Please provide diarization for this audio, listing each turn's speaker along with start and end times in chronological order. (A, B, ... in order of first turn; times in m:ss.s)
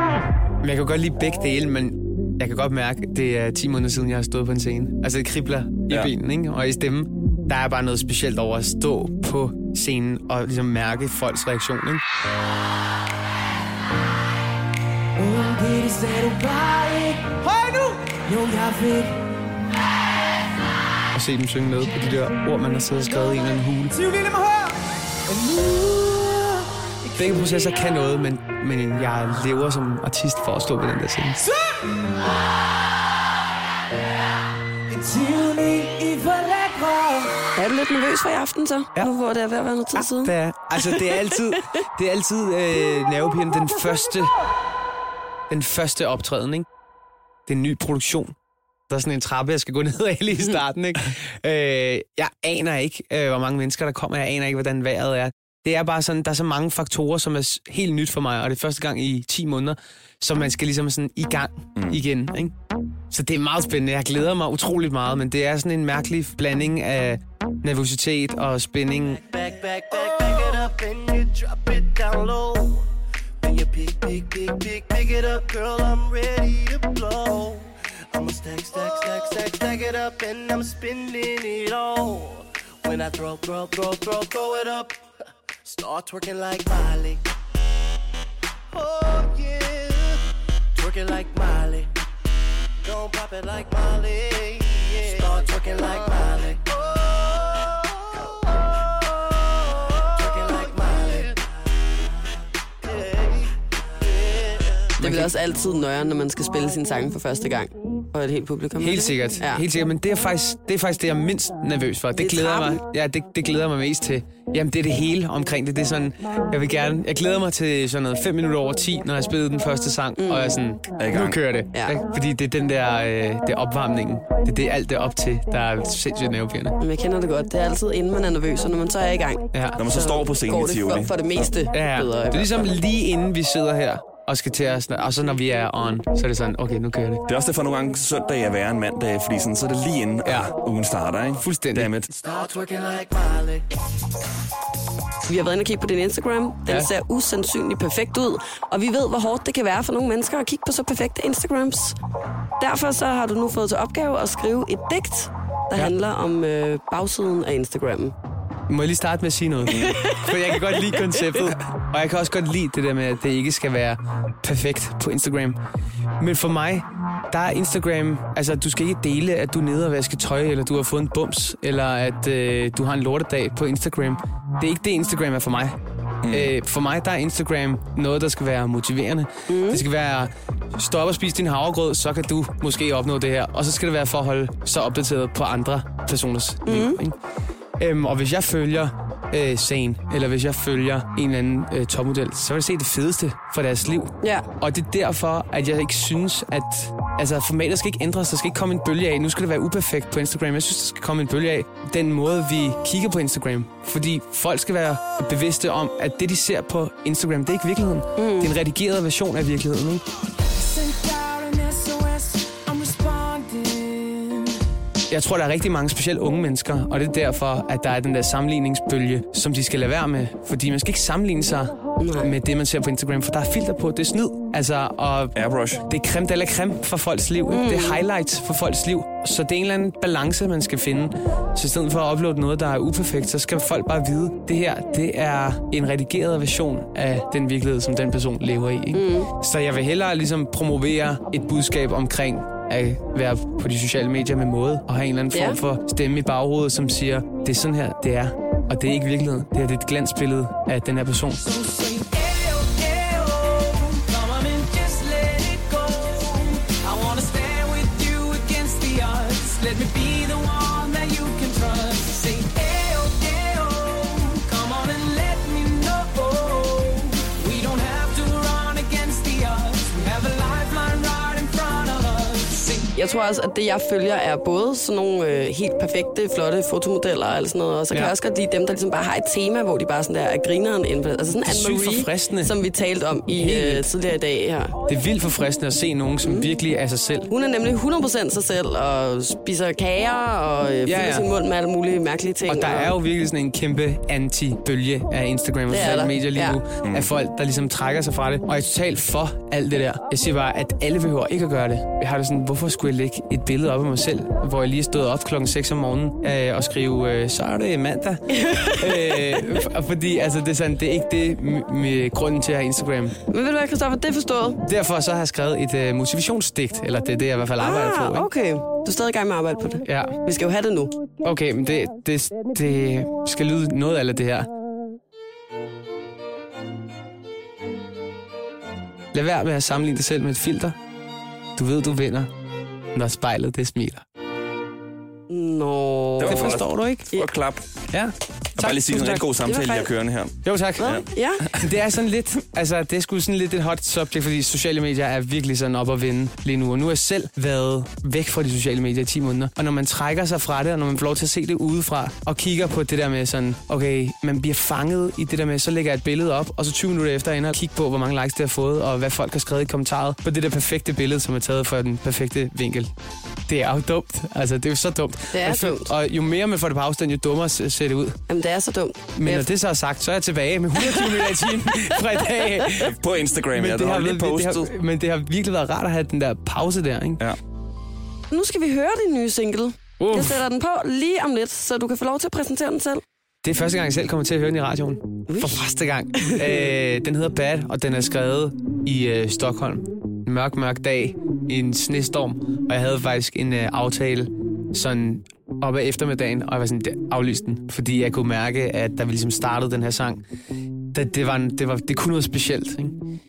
0:00.6-0:12.0 A
0:15.2-0:19.2 B
0:21.1-0:24.0 A
0:24.0-0:26.6 B
0:27.2-0:31.5 A
0:34.9-0:37.4 B
0:37.6-0:41.3 C
0:39.9-0:44.3 A
0:45.5-0:46.7 A
0:47.5-0:48.4 A
0:48.9-1:02.5 A
1:03.1-1:09.2 A
1:09.2-1:12.8 D
1:13.4-1:25.0 D
1:25.6-1:27.2 D
1:28.7-1:30.2 D
1:30.8-1:31.9 D
1:32.8-1:37.8 D
1:39.9-1:41.4 D
1:42.8-1:43.5 D
1:44.1-1:44.9 D
1:45.0-1:45.3 A
1:45.0-1:49.6 C
1:48.8-2:06.8 A
1:52.2-1:52.8 C
2:00.2-2:00.6 C
2:01.0-2:01.4 E
2:06.8-2:12.8 C
2:09.5-2:09.8 A
2:09.8-2:11.5 E
2:11.7-2:17.2 A
2:17.3-2:22.1 E
2:20.2-2:20.5 A
2:21.4-2:21.9 A
2:22.1-2:23.7 D
2:25.3-2:32.0 C
2:32.6-2:38.1 C
2:38.7-2:45.6 A
2:46.2-2:55.8 A
2:56.2-2:56.5 E
2:56.3-3:07.2 A
2:59.5-2:59.8 C
3:06.7-3:07.0 C
3:07.8-3:30.0 A
3:14.2-3:14.5 C
3:28.2-3:28.5 C
3:30.6-3:34.6 B
3:35.1-4:11.5 A
3:42.0-3:42.3 C
3:45.4-3:45.8 E
3:47.5-3:48.0 C
3:58.9-3:59.3 C
4:05.3-4:05.6 C
4:11.4-4:32.9 B
4:33.0-4:44.7 C
4:41.4-4:42.5 A
4:43.3-4:43.9 A
4:44.9-4:47.3 A
4:46.2-4:46.5 C
4:47.3-4:53.0 C
4:50.8-4:51.3 A
4:52.5-5:13.2 A
4:55.7-4:56.6 C
5:08.4-5:09.4 C
5:13.3-5:14.6 C
5:14.6-5:18.3 A
5:17.6-5:21.0 C
5:19.8-5:20.2 A
5:21.2-5:24.5 A
5:29.1-5:30.8 A
5:31.6-5:32.3 A
5:32.9-5:34.0 A
5:35.3-5:36.6 C
5:36.2-5:37.7 E
5:36.2-5:37.1 A
5:38.6-5:41.1 E
5:38.6-5:39.9 C
5:40.4-6:02.9 A
5:40.8-5:41.5 C
6:03.5-6:08.2 A
6:05.3-6:05.9 C
6:08.3-6:09.5 C
6:09.2-6:13.0 A
6:10.9-6:11.3 C
6:12.8-6:14.7 E
6:13.5-6:17.2 A
6:18.3-6:23.0 C
6:20.0-6:20.4 A
6:23.4-6:40.2 A
6:25.3-6:25.5 C
6:40.9-6:43.0 A